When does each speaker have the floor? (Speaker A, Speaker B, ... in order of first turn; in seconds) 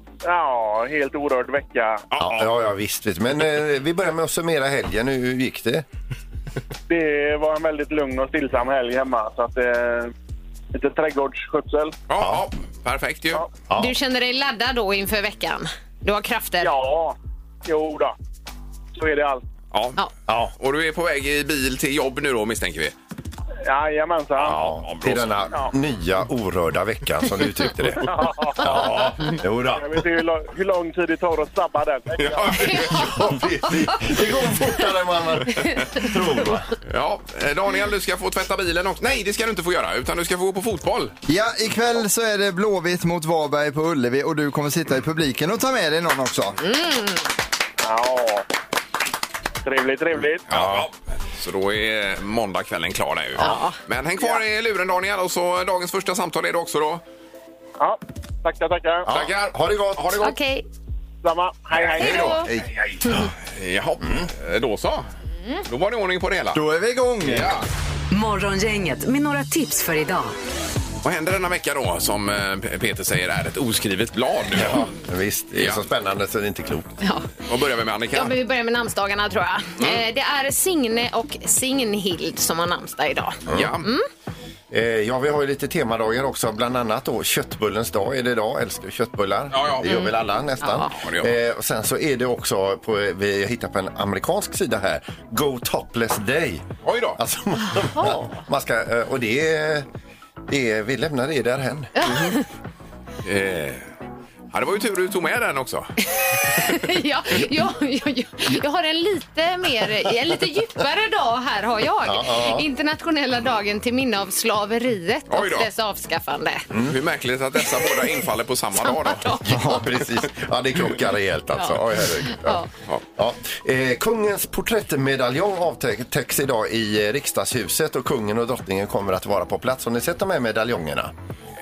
Speaker A: 0.2-2.0, 6.9-10.1, 10.7-11.9, 16.6-18.1, 18.9-19.4, 23.6-24.6, 28.0-29.1, 29.8-32.8, 47.8-48.5, 49.6-50.5, 57.8-59.1, 61.2-62.4
Speaker B: 2.1-2.5, 12.1-13.4, 19.7-20.0, 20.6-22.9, 24.4-25.4, 32.2-33.2, 36.8-41.1, 50.5-57.0, 59.1-60.3, 62.2-65.1, 65.7-66.6, 67.2-67.6, 71.0-74.9, 75.5-75.8, 77.5-78.4, 83.5-83.9, 89.5-90.1, 90.9-91.4, 96.8-97.2, 103.2-103.8, 104.5-105.9, 115.3-115.7, 116.8-119.4
Speaker C: 2.2-5.8, 12.2-12.4, 20.3-20.5, 24.4-30.0, 32.8-36.8, 50.5-50.9, 59.1-60.3, 62.0-63.3, 74.5-76.9, 83.5-83.8, 84.7-96.7, 97.2-99.9, 100.5-101.9, 112.0-112.7, 116.7-117.0, 119.5-131.1
Speaker D: 13.8-16.7, 32.6-33.2, 35.6-36.1, 46.6-47.2, 53.4-53.8, 60.2-60.6, 62.0-62.5, 77.0-77.3, 78.1-84.1, 89.8-90.1, 90.6-90.9, 97.8-98.2, 102.0-102.4, 106.2-116.7, 118.9-119.8, 122.3-122.7
Speaker E: 41.3-46.6, 66.5-67.6
Speaker F: 68.1-70.3